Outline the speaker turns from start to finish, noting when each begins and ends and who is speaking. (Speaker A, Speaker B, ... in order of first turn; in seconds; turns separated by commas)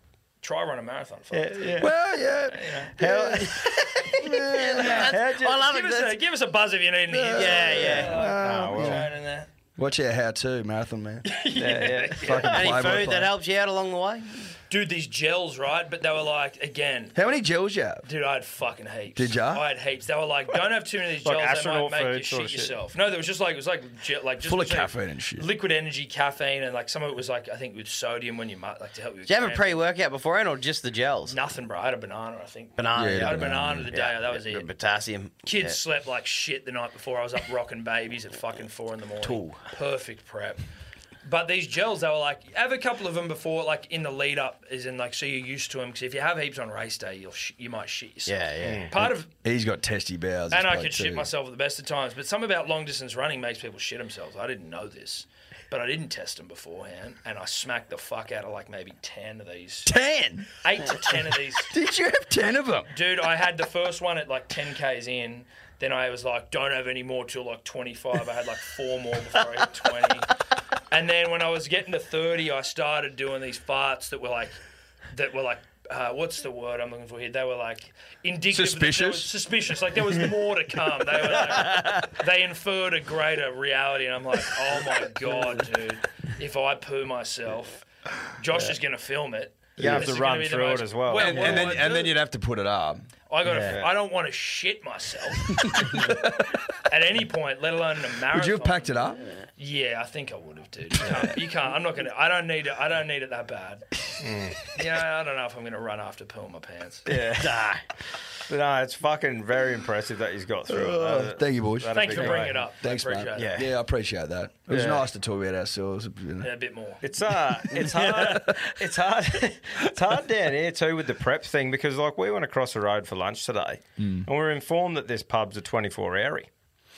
Speaker A: 0.4-2.0, Speaker B: 1.3-1.9, Speaker C: 1.8-3.2, Speaker A: 2.5-3.5, Speaker B: 3.0-5.7, Speaker C: 4.1-5.1, Speaker A: 4.4-9.5, Speaker D: 4.4-6.2, Speaker C: 7.1-9.1, Speaker D: 7.3-8.2, Speaker B: 7.8-9.1, Speaker C: 9.8-11.4, Speaker A: 11.3-12.8, Speaker B: 11.5-12.7, Speaker C: 12.1-13.4, Speaker D: 12.4-14.5, Speaker A: 14.7-17.4, Speaker C: 17.1-18.1, Speaker A: 18.0-29.9, Speaker C: 19.2-19.6, Speaker B: 21.2-22.8, Speaker C: 24.4-25.5, Speaker D: 29.3-31.4, Speaker A: 31.3-34.7, Speaker D: 32.8-35.8, Speaker C: 32.9-33.9, Speaker A: 35.5-40.6, Speaker D: 39.2-39.6, Speaker A: 41.2-49.3, Speaker D: 48.3-48.9, Speaker B: 48.6-48.9, Speaker C: 49.0-51.3, Speaker A: 50.5-59.9, Speaker C: 59.9-60.5, Speaker A: 60.6-61.7, Speaker C: 61.7-62.9, Speaker A: 62.9-70.3, Speaker A: 70.9-74.6, Speaker A: 75.1-87.8, Speaker C: 78.5-79.3, Speaker A: 88.4-92.2, Speaker B: 89.8-91.8, Speaker C: 89.8-90.1, Speaker C: 91.1-93.1, Speaker A: 93.3-96.2, Speaker B: 93.5-93.9, Speaker C: 95.5-96.5, Speaker A: 96.9-104.0, Speaker C: 98.3-99.3, Speaker B: 104.2-104.6, Speaker A: 104.7-107.1, Speaker B: 107.1-107.7, Speaker D: 107.2-107.8, Speaker B: 108.5-112.6, Speaker C: 110.7-116.5, Speaker A: 111.9-113.6, Speaker D: 113.3-113.7, Speaker B: 114.7-115.0, Speaker A: 116.4-117.0, Speaker B: 117.0-126.5, Speaker D: 117.7-118.6, Speaker C: 118.3-118.5, Speaker C: 124.0-124.3